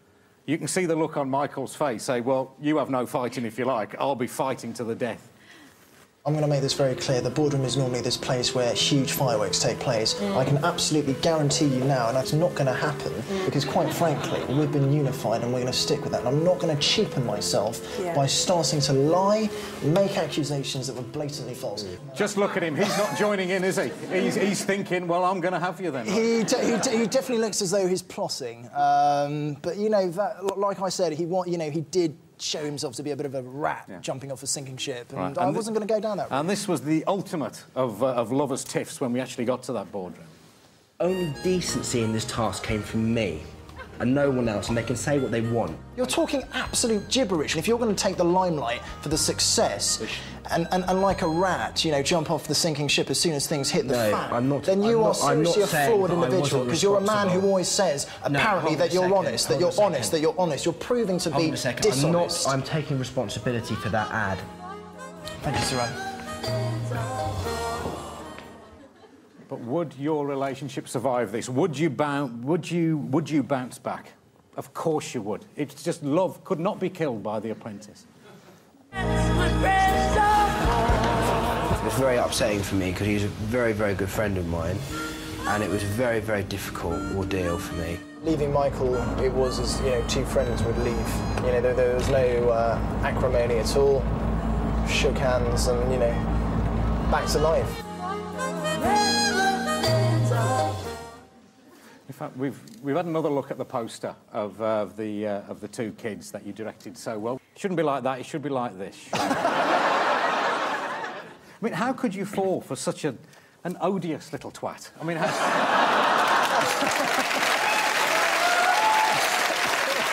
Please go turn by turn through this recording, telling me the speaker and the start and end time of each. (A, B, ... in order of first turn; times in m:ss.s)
0:00.5-0:05.3 A
0:06.2-0:22.2 B
0:22.1-0:26.3 A
0:26.0-0:36.5 B
0:35.2-0:35.7 A
0:36.3-0:40.3 A
0:41.0-0:43.4 C
0:44.0-0:45.8 C
0:46.0-1:02.6 B
0:53.8-0:57.5 C
0:58.3-1:00.2 C
1:01.3-1:04.5 C
1:05.4-1:06.0 B
1:09.5-1:18.1 A
1:21.8-1:24.8 C
1:25.4-1:28.0 C
1:28.2-1:34.1 B
1:34.8-1:36.3 B
1:37.1-1:37.8 B
1:42.1-1:49.4 A
1:51.6-1:55.8 A